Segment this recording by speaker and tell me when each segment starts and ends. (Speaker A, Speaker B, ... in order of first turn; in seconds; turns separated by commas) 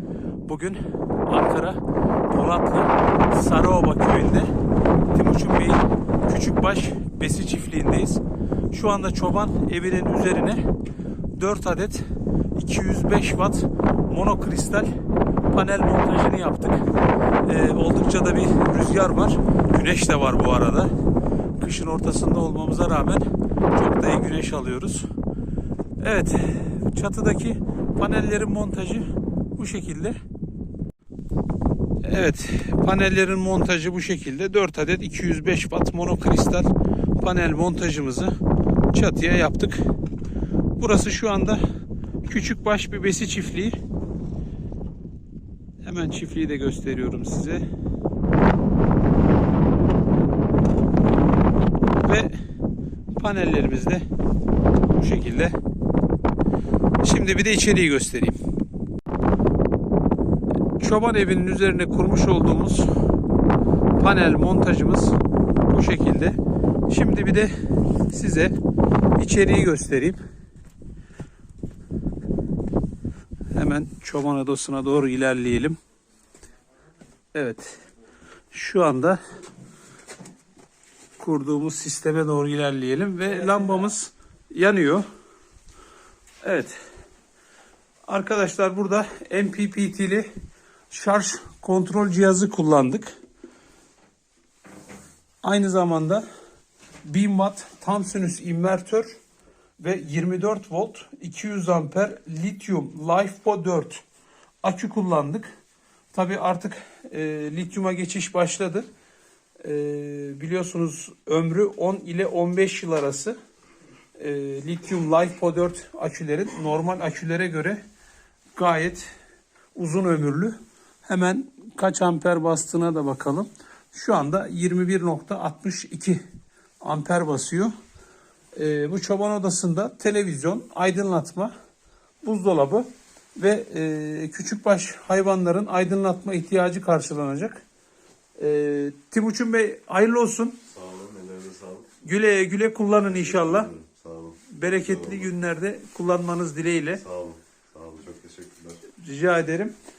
Speaker A: 0.5-4.5, Speaker A: 5.1-10.6, Speaker A: 11.4-12.0, Speaker A: 12.6-14.9, Speaker A: 15.5-16.9, Speaker A: 17.4-20.9, Speaker A: 21.6-25.1, Speaker A: 26.0-30.2, Speaker A: 32.0-38.3, Speaker A: 38.9-39.9, Speaker A: 40.8-41.6, Speaker A: 42.2-43.8, Speaker A: 45.8-47.6, Speaker A: 52.0-52.3, Speaker A: 53.2-54.0, Speaker A: 54.9-55.6, Speaker A: 57.0-58.4, Speaker A: 60.8-62.9, Speaker A: 64.0-65.2, Speaker A: 65.7-66.4, Speaker A: 66.9-67.5, Speaker A: 68.1-68.5, Speaker A: 69.2-70.2, Speaker A: 73.5-75.8, Speaker A: 77.3-77.8, Speaker A: 78.5-79.2, Speaker A: 81.2-85.0, Speaker A: 86.4-86.8, Speaker A: 88.1-90.3, Speaker A: 90.9-93.1, Speaker A: 95.4-96.2, Speaker A: 97.0-99.1, Speaker A: 99.8-104.0, Speaker A: 104.6-105.5, Speaker A: 106.1-108.9, Speaker A: 109.6-113.4, Speaker A: 114.2-117.8, Speaker A: 118.6-119.1, Speaker A: 119.8-126.2, Speaker A: 126.8-127.7, Speaker A: 128.6-131.5, Speaker A: 132.2-137.6, Speaker A: 138.4-140.6, Speaker B: 140.7-141.9, Speaker A: 142.0-143.7, Speaker B: 143.1-145.3, Speaker A: 144.5-147.0, Speaker B: 147.0-148.8, Speaker A: 148.9-149.7